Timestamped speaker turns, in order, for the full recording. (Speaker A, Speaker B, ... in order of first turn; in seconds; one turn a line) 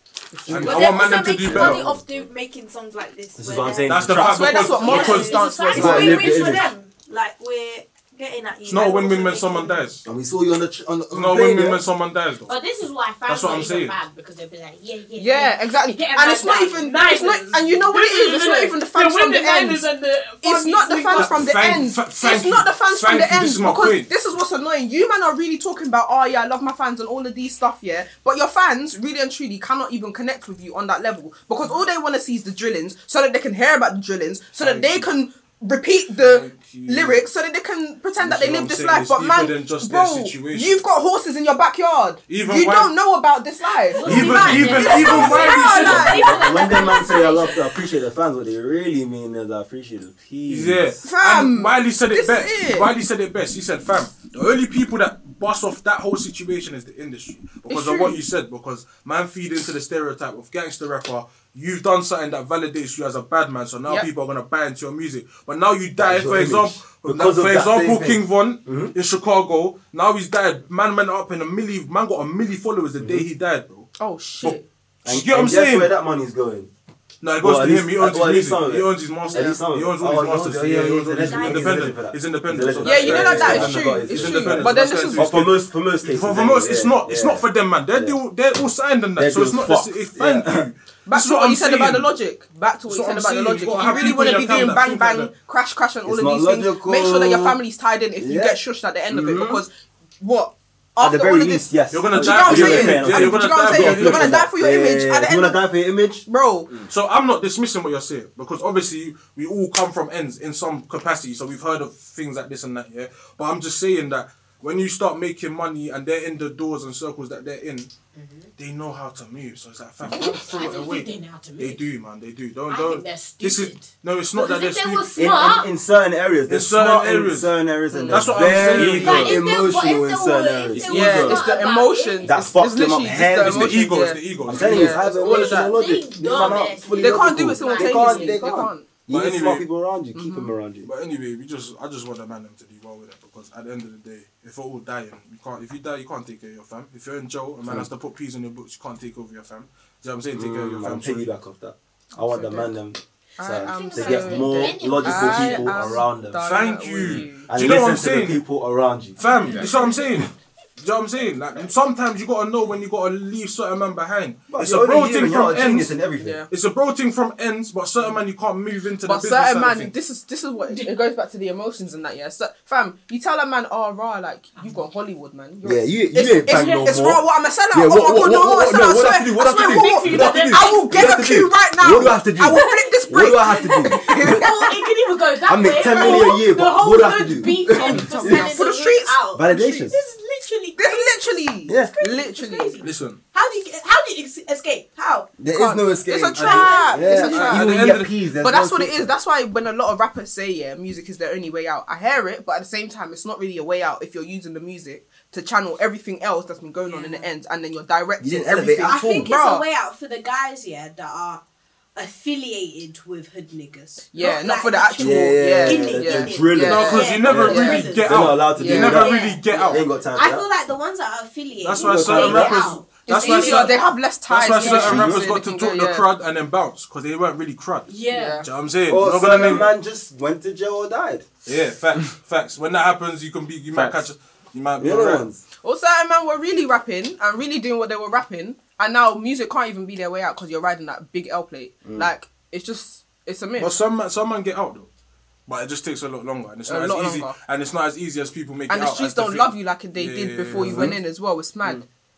Speaker A: 0.5-1.9
Speaker B: 0.5-9.9
Speaker C: 1.5-1.9
Speaker C: 3.4-4.6
Speaker A: 3.9-5.4
Speaker D: 4.2-6.3
Speaker E: 4.8-6.7
Speaker C: 5.7-6.7
Speaker A: 8.7-10.1
Speaker C: 10.1-11.8
Speaker A: 11.1-12.5
Speaker E: 12.5-21.4
Speaker A: 13.3-13.9
Speaker D: 15.2-19.9
Speaker D: 20.4-46.7
Speaker A: 21.1-24.1
Speaker A: 34.6-35.1
Speaker A: 36.1-37.3
Speaker A: 38.2-40.8
Speaker A: 42.3-42.9
Speaker E: 43.9-47.6
Speaker A: 44.0-46.2
Speaker C: 44.8-51.0
Speaker A: 50.5-73.9
Speaker D: 51.0-52.9
Speaker D: 57.7-58.2
Speaker C: 66.0-68.9
Speaker C: 73.0-73.3
Speaker D: 74.0-74.6
Speaker A: 74.4-75.9
Speaker C: 75.0-76.7
Speaker A: 77.2-92.1
Speaker C: 77.4-88.2
Speaker D: 79.3-79.6
Speaker E: 81.2-81.7
Speaker D: 82.8-85.3
Speaker C: 89.2-90.7
Speaker D: 91.1-105.6
Speaker A: 92.9-95.3
Speaker C: 96.1-97.6
Speaker C: 98.2-99.7
Speaker C: 101.0-106.2
Speaker A: 101.9-104.4
Speaker D: 106.3-106.7
Speaker A: 106.9-117.9
Speaker E: 118.1-118.5
Speaker A: 118.6-125.1
Speaker E: 120.1-121.9
Speaker E: 122.7-125.7
Speaker C: 125.2-131.6
Speaker A: 126.5-127.5
Speaker D: 127.9-128.8
Speaker A: 128.1-129.4
Speaker E: 128.8-132.3
Speaker D: 130.8-135.8
Speaker C: 132.2-140.9
Speaker A: 133.4-135.0
Speaker E: 135.1-138.5
Speaker D: 136.4-138.9
Speaker A: 139.1-139.7
Speaker D: 140.2-140.5
Speaker A: 140.8-151.3
Speaker C: 150.3-156.4
Speaker D: 152.2-152.7
Speaker D: 153.4-157.5
Speaker E: 153.6-156.0
Speaker A: 156.4-158.4
Speaker C: 157.0-159.2
Speaker A: 159.2-166.0
Speaker E: 159.4-159.9
Speaker C: 164.5-166.4
Speaker D: 166.2-166.5
Speaker A: 166.5-169.9
Speaker D: 169.0-184.8
Speaker C: 175.6-184.4
Speaker E: 176.5-176.9
Speaker E: 179.4-181.2
Speaker E: 182.6-195.3
Speaker C: 185.5-188.6
Speaker D: 185.8-186.3
Speaker D: 187.7-189.2
Speaker C: 189.3-190.0
Speaker D: 190.8-192.8
Speaker C: 191.7-191.9
Speaker A: 192.8-193.2
Speaker C: 195.4-199.1
Speaker D: 195.5-209.7
Speaker A: 196.3-198.1
Speaker E: 196.4-197.5
Speaker E: 206.8-207.3
Speaker C: 208.2-209.3
Speaker E: 208.8-211.4
Speaker E: 211.9-223.9
Speaker D: 214.1-217.9
Speaker C: 215.0-220.5
Speaker A: 216.6-219.8
Speaker D: 218.5-219.1
Speaker A: 221.6-227.9
Speaker C: 221.8-222.7
Speaker D: 223.1-226.1
Speaker E: 224.5-225.1
Speaker C: 224.8-225.1
Speaker E: 227.9-228.5
Speaker D: 228.1-228.5
Speaker A: 228.4-229.7
Speaker C: 228.9-231.3
Speaker A: 231.5-235.3
Speaker C: 234.8-235.4
Speaker D: 235.6-243.8
Speaker A: 243.6-244.9
Speaker A: 245.5-251.0
Speaker D: 246.7-247.3
Speaker D: 248.7-251.8
Speaker C: 250.6-251.0